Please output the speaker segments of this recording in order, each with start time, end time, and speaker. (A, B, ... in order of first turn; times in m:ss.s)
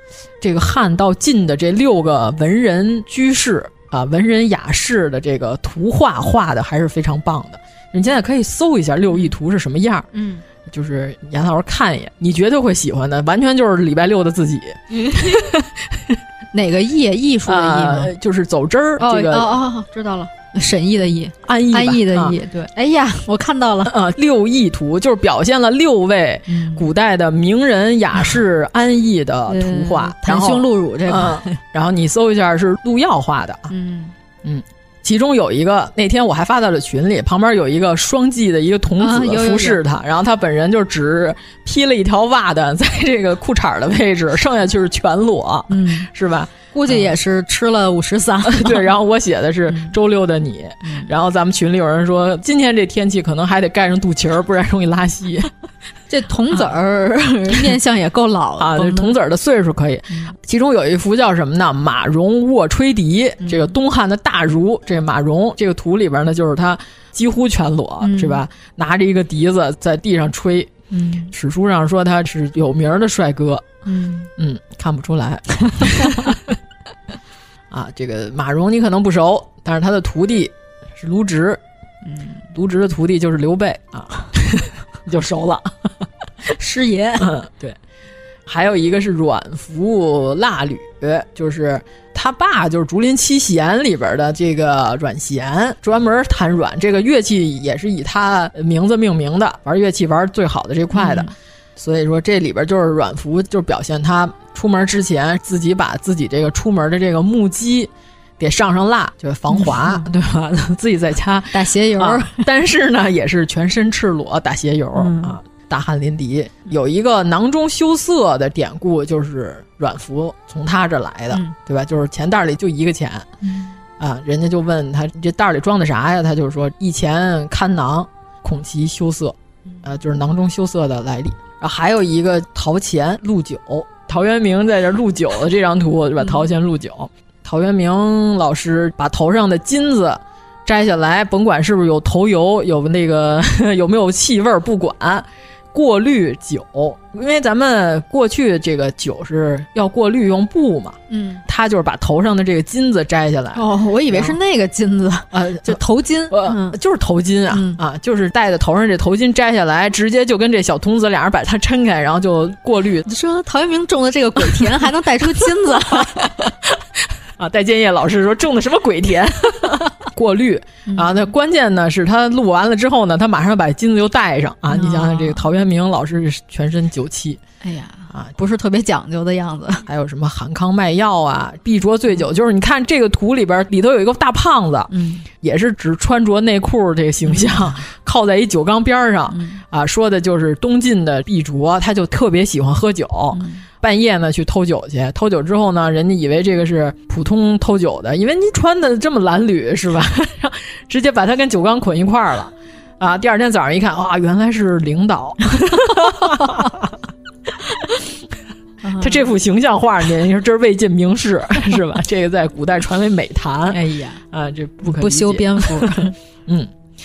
0:00.4-0:10.1 A
0:10.1-0:10.4 B
0:10.7-0:16.2 A
0:14.9-0:15.3 B
0:16.5-0:18.1 B
0:17.5-0:19.5 A
0:19.0-0:23.9 B
0:21.4-0:22.4 A
0:23.9-0:33.7 A
0:26.5-0:26.9 B
0:29.5-0:31.6 B
0:33.7-0:34.1 B
0:34.4-0:47.1 A
0:39.0-0:39.8 B
0:45.7-0:46.1 B
0:46.7-0:48.9 B
0:48.5-0:55.5 A
0:49.7-0:49.9 B
0:50.8-0:51.1 B
0:56.1-0:59.2 B
0:58.6-1:10.7 A
1:03.4-1:03.7 B
1:08.0-1:08.4 B
1:10.9-1:11.3 B
1:11.3-1:13.8 A
1:13.9-1:14.3 B
1:14.4-1:16.4 A
1:15.8-1:16.2 B
1:17.7-1:21.6 A
1:22.0-1:22.4 B
1:22.5-1:25.9 A
1:26.6-1:27.3 B
1:27.2-1:27.8 A
1:28.5-2:03.3 A
1:40.9-1:41.3 B
1:49.5-1:50.0 B
1:51.5-1:52.5 B
1:55.0-1:55.4 B
2:03.4-2:03.7 B
2:04.0-2:34.4 A
2:16.2-2:16.5 B
2:31.1-2:31.4 B
2:33.6-2:36.8 B
2:35.3-2:43.0 A
2:37.5-2:37.8 B
2:43.0-2:46.3 B
2:45.4-2:46.8 A
2:47.4-2:57.4 A
2:50.9-2:51.3 B
2:54.7-2:55.5 B
2:57.6-2:59.8 B
2:59.9-3:26.9 A
3:04.9-3:05.3 B
3:07.3-3:07.8 B
3:09.3-3:09.6 B
3:13.3-3:13.7 B
3:28.8-3:29.3 B
3:29.0-3:36.7 A
3:33.7-3:34.2 B
3:34.8-3:36.2 B